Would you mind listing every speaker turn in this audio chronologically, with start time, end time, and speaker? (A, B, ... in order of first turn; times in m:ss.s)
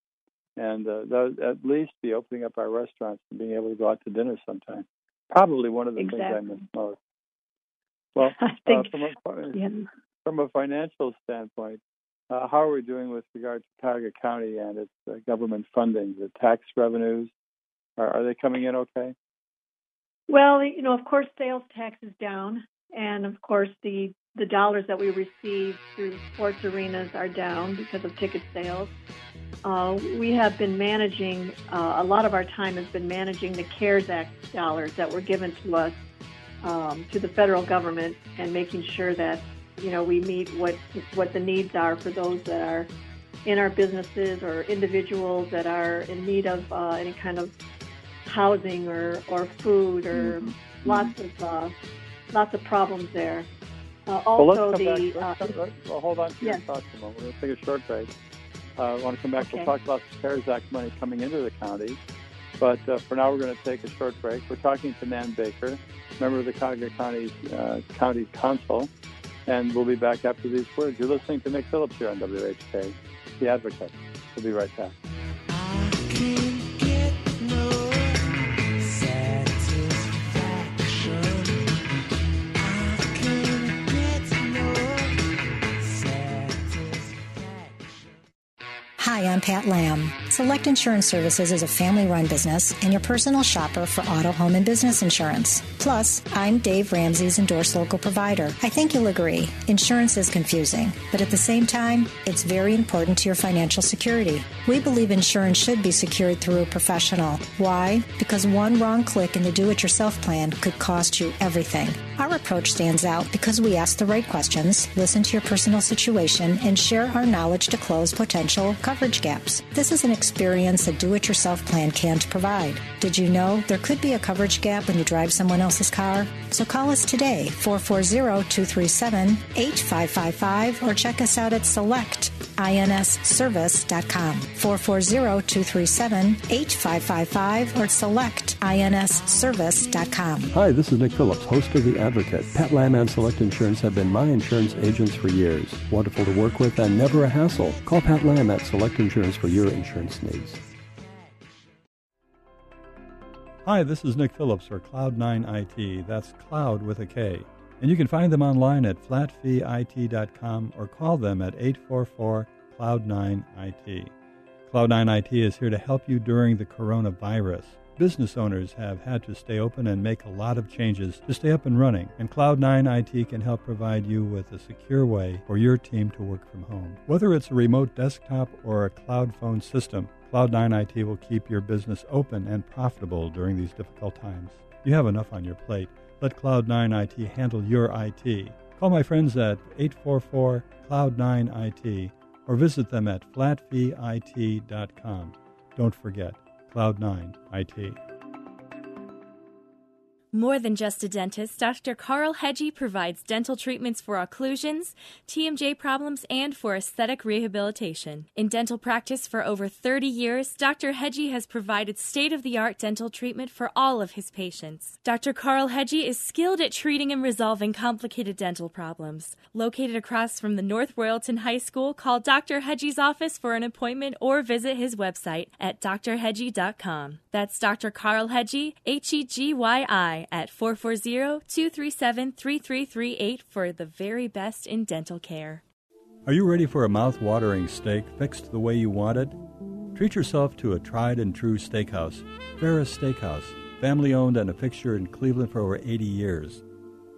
0:00.6-0:07.0 A
0:06.0-0:06.7 B
0:08.2-0:09.6 A
0:08.3-0:09.8 B
0:10.2-0:17.3 A
0:18.0-0:19.1 A
0:20.3-0:28.9 B
0:29.6-0:35.9 B
0:36.6-0:42.9 B
0:43.4-0:47.5 B
0:48.2-0:51.7 B
0:50.2-0:51.0 A
0:52.3-0:53.5 B
0:54.0-0:55.5 B
0:54.4-0:58.1 A
0:58.8-1:02.0 A
0:59.4-0:59.7 B
1:02.6-1:08.9 A
1:09.4-1:14.9 A
1:29.0-2:20.5 C
2:20.5-2:30.6 D
2:33.6-2:44.1 E
2:44.7-3:18.0 E
3:20.3-3:55.6 F
3:56.2-3:59.4 E
3:59.9-4:06.6 E